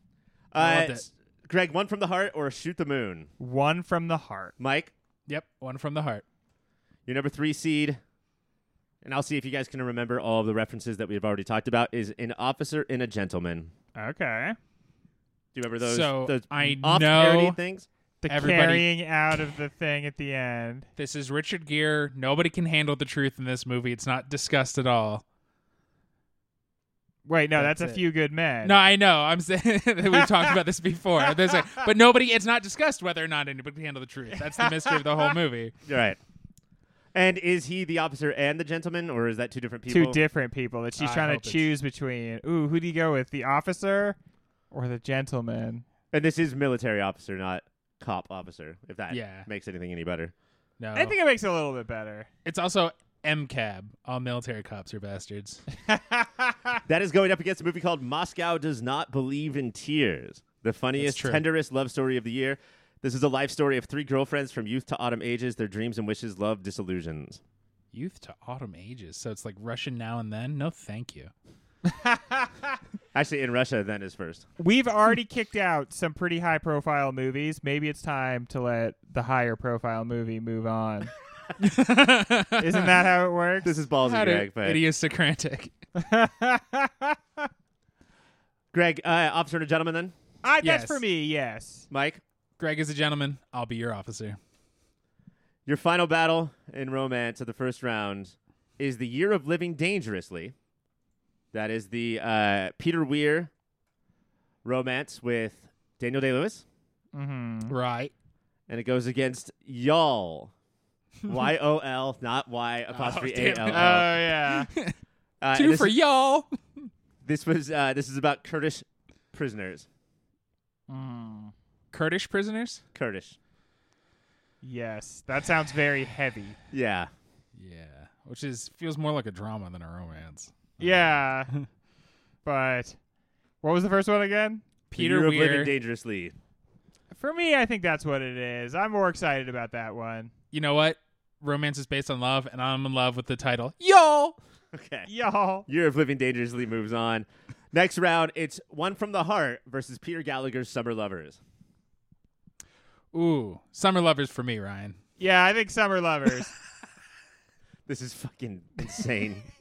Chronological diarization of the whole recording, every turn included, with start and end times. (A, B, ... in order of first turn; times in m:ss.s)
0:00.5-0:03.3 A
0:00.6-0:01.0 B
0:03.4-0:04.5 C
0:04.6-0:04.9 A
0:05.3-0:06.2 B
0:07.1-0:08.0 A
0:09.0-0:13.7 A
0:14.0-0:14.6 C
0:15.5-0:17.9 A
0:15.8-0:17.6 B
0:18.2-0:20.9 C
0:18.3-0:18.9 B
0:21.0-0:25.2 B
0:27.3-0:28.8 C
0:27.6-0:28.0 B
0:28.6-0:35.7 B
0:30.2-0:30.6 C
0:31.4-0:31.8 C
0:34.5-0:35.3 C
0:35.9-0:36.2 A
0:37.1-0:40.2 A
0:39.9-0:44.2 C
0:41.0-0:41.7 B
0:44.7-0:45.8 C
0:46.1-0:50.3 A
0:49.1-0:49.5 B
0:50.8-0:51.2 B
0:51.0-0:52.3 C
0:52.4-0:55.6 B
0:55.9-0:56.8 C
0:56.9-1:07.4 A
1:01.0-1:01.4 B
1:07.9-1:11.3 B
1:11.8-1:12.7 C
1:13.1-1:14.4 A
1:14.6-1:21.1 C
1:21.6-1:23.0 B
1:22.6-1:23.7 C
1:23.6-1:24.8 A
1:24.0-1:25.7 B
1:26.0-1:27.4 C
1:28.7-1:30.1 A
1:30.4-1:31.9 C
1:30.6-1:31.0 B
1:31.9-1:32.2 A
1:32.6-1:34.4 B
1:35.7-1:40.5 A
1:41.5-1:43.5 A
1:44.6-1:46.6 A
1:47.1-1:47.8 C
1:47.7-1:48.1 B
1:48.7-1:50.5 A
1:51.3-1:54.2 A
1:52.9-1:55.0 B
1:53.7-1:54.7 C
1:55.4-1:56.0 A
1:55.5-1:56.9 B
1:57.2-1:59.9 A
2:00.9-2:01.5 C
2:01.9-2:02.8 B
2:03.0-2:03.4 A
2:04.6-2:06.6 C
2:06.7-2:07.1 A
2:07.6-2:11.7 B
2:10.8-2:11.5 C
2:12.4-2:13.0 C
2:13.6-2:14.6 C
2:14.9-2:15.7 B
2:14.9-2:16.4 A
2:17.1-2:20.3 C
2:20.5-2:24.4 B
2:24.7-2:25.1 A
2:25.1-2:25.7 C
2:25.7-2:31.4 A
2:33.1-2:35.0 B
2:35.2-2:36.5 C
2:37.9-2:39.4 A